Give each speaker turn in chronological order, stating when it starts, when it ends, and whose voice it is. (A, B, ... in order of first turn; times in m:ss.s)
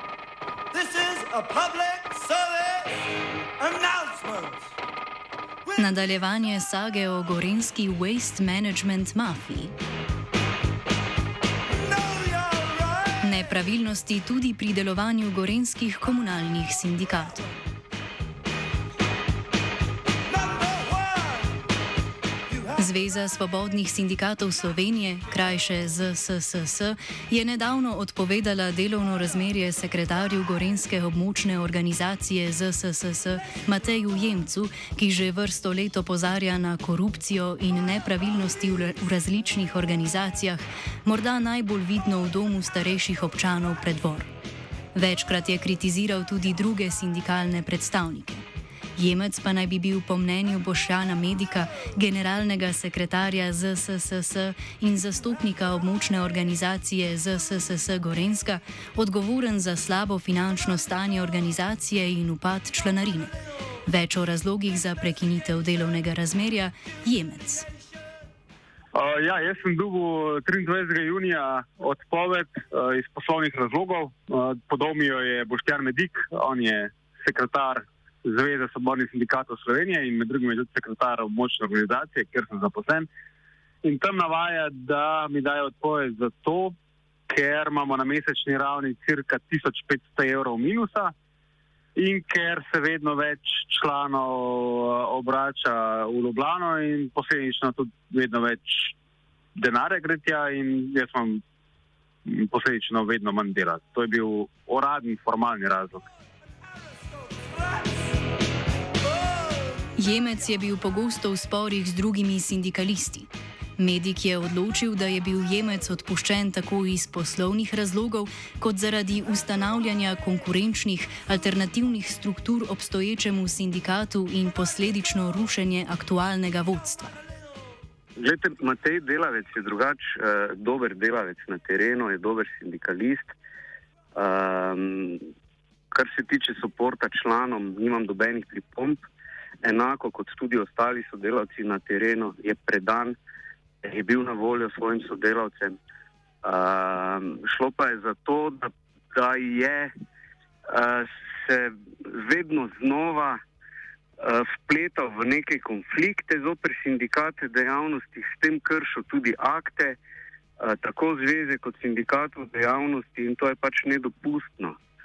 0:00.7-0:03.0 A
0:03.6-0:04.7 A
0:05.7-0:09.7 B
0:11.8-0:13.2 A
0:13.2-0:17.5 B
0:20.3-0:21.6 A
0:22.8-0:44.3 B
0:44.9-0:48.4 B
0:49.0-1:07.7 B
1:08.9-1:23.1 C
1:23.8-1:26.7 C
1:27.3-1:31.1 C
1:32.0-1:38.9 C
1:39.5-1:41.4 C
1:42.2-1:46.0 C
1:47.6-1:47.9 A
1:49.9-2:07.2 B
2:08.2-2:13.3 D
2:14.2-2:15.2 D
2:15.9-2:19.0 D
2:19.6-2:23.2 D
2:23.8-2:25.8 D
2:26.4-2:29.9 D
2:30.7-2:33.4 D
2:34.2-2:40.0 D
2:40.6-2:44.8 D